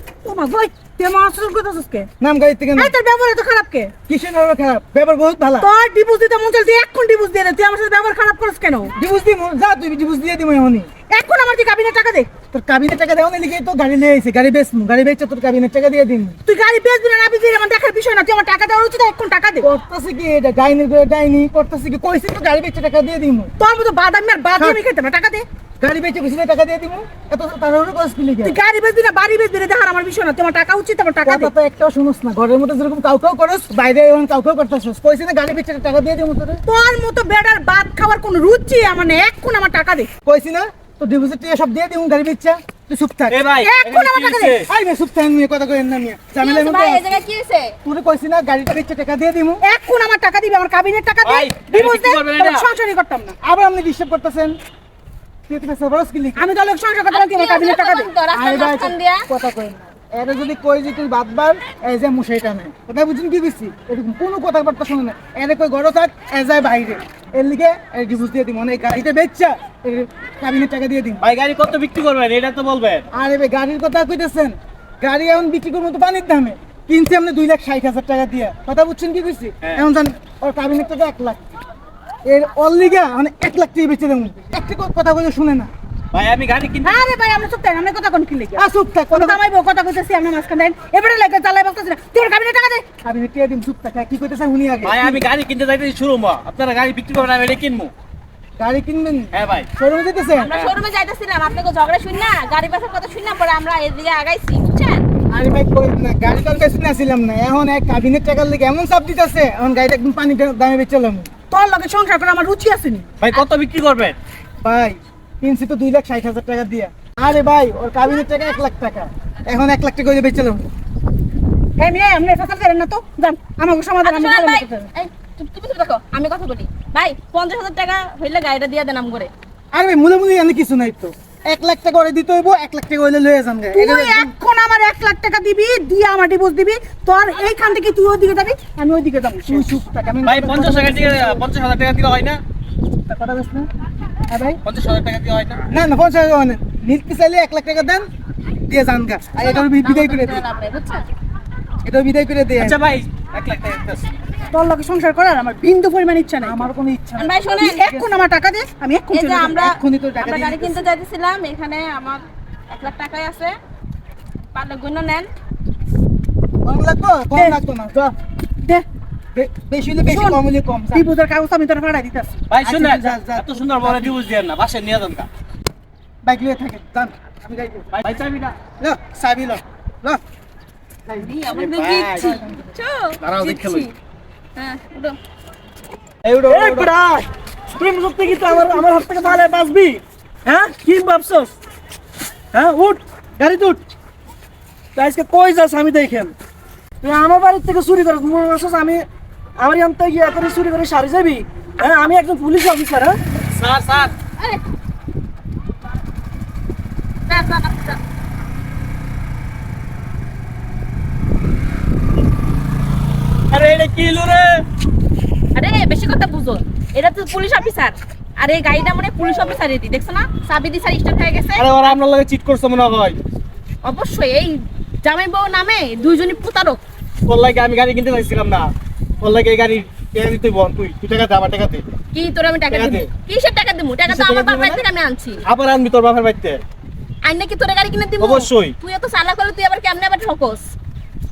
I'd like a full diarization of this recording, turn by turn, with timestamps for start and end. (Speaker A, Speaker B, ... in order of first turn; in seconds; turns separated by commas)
Speaker A: 0.2-2.1, Speaker B: 2.2-2.9, Speaker A: 2.8-4.0, Speaker B: 4.0-5.7, Speaker A: 5.6-8.9, Speaker B: 8.9-10.9, Speaker A: 11.1-12.3, Speaker B: 12.5-16.4, Speaker A: 16.5-19.7, Speaker B: 19.6-23.5, Speaker A: 23.6-25.4, Speaker B: 25.8-28.6, Speaker A: 28.4-31.5, Speaker B: 31.2-36.6, Speaker A: 36.7-40.1, Speaker B: 40.2-43.4, Speaker C: 43.3-44.7, Speaker A: 43.6-44.6, Speaker B: 44.6-47.2, Speaker D: 46.4-47.8, Speaker B: 47.9-49.6, Speaker A: 49.6-53.4, Speaker C: 51.2-52.7, Speaker B: 53.4-54.6, Speaker B: 55.5-56.5, Speaker A: 56.4-58.1, Speaker D: 57.1-59.2, Speaker B: 58.3-71.2, Speaker C: 71.2-73.1, Speaker B: 73.1-81.4, Speaker B: 82.3-85.7, Speaker C: 86.1-87.0, Speaker A: 86.8-92.9, Speaker B: 88.6-89.4, Speaker B: 93.0-95.2, Speaker C: 94.8-97.9, Speaker B: 98.6-100.6, Speaker C: 99.3-99.7, Speaker D: 100.4-105.0, Speaker C: 100.5-100.8, Speaker B: 105.3-111.3, Speaker A: 111.5-113.0, Speaker C: 113.2-114.2, Speaker B: 114.6-120.7, Speaker A: 121.8-124.9, Speaker D: 124.0-129.3, Speaker B: 129.7-134.3, Speaker A: 133.7-139.7, Speaker B: 139.5-141.4, Speaker C: 140.2-142.4, Speaker B: 143.1-143.7, Speaker C: 144.6-145.6, Speaker B: 145.7-148.1, Speaker B: 148.7-150.4, Speaker D: 149.4-151.1, Speaker B: 151.8-152.8, Speaker C: 152.6-154.1, Speaker A: 154.5-156.7, Speaker B: 156.4-158.2, Speaker D: 157.2-157.9, Speaker A: 157.5-159.6, Speaker D: 159.1-163.6, Speaker B: 159.6-160.9, Speaker D: 164.5-165.3, Speaker B: 166.7-168.1, Speaker A: 167.3-167.6, Speaker B: 169.3-171.1, Speaker A: 170.0-172.5, Speaker C: 172.5-175.3, Speaker B: 172.6-174.2, Speaker B: 176.2-178.0, Speaker C: 177.9-178.6, Speaker B: 178.8-180.2, Speaker D: 181.1-183.9, Speaker C: 181.5-182.4, Speaker B: 182.2-182.7, Speaker C: 183.2-183.9, Speaker D: 184.6-185.2, Speaker C: 186.2-186.9, Speaker E: 186.5-191.5, Speaker E: 192.5-193.8, Speaker E: 194.9-196.3, Speaker E: 197.0-199.1, Speaker E: 199.6-203.1, Speaker C: 203.5-204.1, Speaker D: 204.0-204.6, Speaker D: 207.3-208.0, Speaker C: 213.5-214.7, Speaker D: 215.6-221.7, Speaker C: 221.6-223.2, Speaker D: 223.8-226.8, Speaker C: 227.3-231.8, Speaker D: 232.1-235.4, Speaker C: 232.7-233.1, Speaker C: 234.1-234.8, Speaker C: 235.5-236.6, Speaker D: 237.3-240.7, Speaker C: 238.2-238.7